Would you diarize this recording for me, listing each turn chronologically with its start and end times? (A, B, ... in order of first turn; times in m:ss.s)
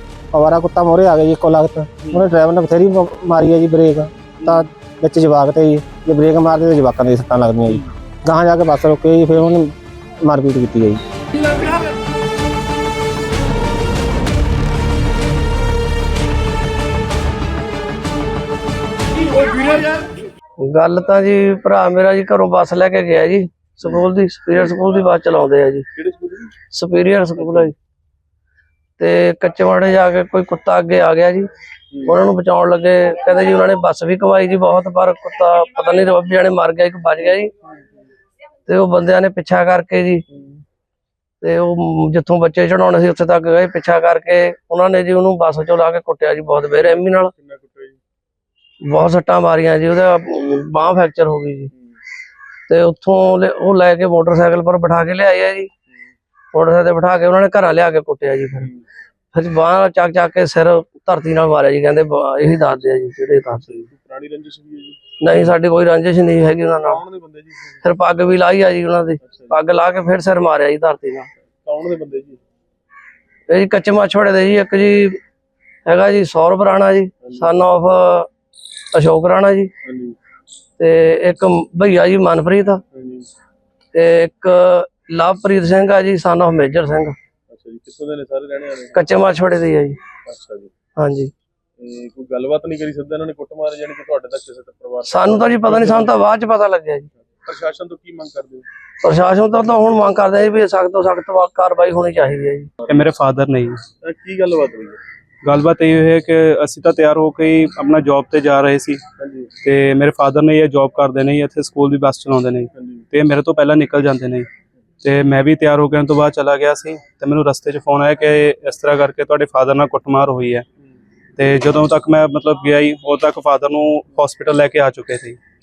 0:00.3-0:11.0 A
0:04.4-0:04.6 B
0:20.6-0:25.9 C
0:26.0-0:26.5 B
0:26.7-0:27.7 C
0:27.4-0:27.7 B
0:29.0-0:31.5 C
0:31.9-0:32.2 B
0:32.0-0:37.5 C
0:38.6-0:40.2 C
0:40.3-0:40.6 B
0:41.4-0:47.3 C
0:46.7-0:48.0 B
0:48.8-0:51.7 C
0:52.7-0:55.7 C
0:56.5-0:58.7 C
0:58.6-0:58.8 B
0:59.3-1:03.8 C
1:03.7-1:05.5 B
1:05.2-1:07.0 C
1:06.8-1:07.8 B
1:07.8-1:11.3 C
1:09.2-1:09.6 B
1:11.6-1:12.4 B
1:13.5-1:15.2 C
1:15.8-1:18.3 C
1:17.2-1:17.5 B
1:18.9-1:19.7 C
1:19.8-1:20.2 B
1:20.8-1:22.8 C
1:22.9-1:23.3 B
1:23.9-1:27.2 C
1:27.5-1:29.1 B
1:28.9-1:30.0 C
1:30.2-1:30.7 B
1:31.0-1:31.3 C
1:31.8-1:36.2 B
1:35.0-1:37.1 C
1:37.4-1:38.6 B
1:39.0-1:42.7 C
1:42.9-1:43.8 D
1:44.0-1:45.0 B
1:45.4-1:49.0 D
1:49.2-1:49.5 B
1:49.6-1:54.5 D
1:52.7-1:53.0 B
1:55.0-2:00.6 D
2:01.4-2:05.4 D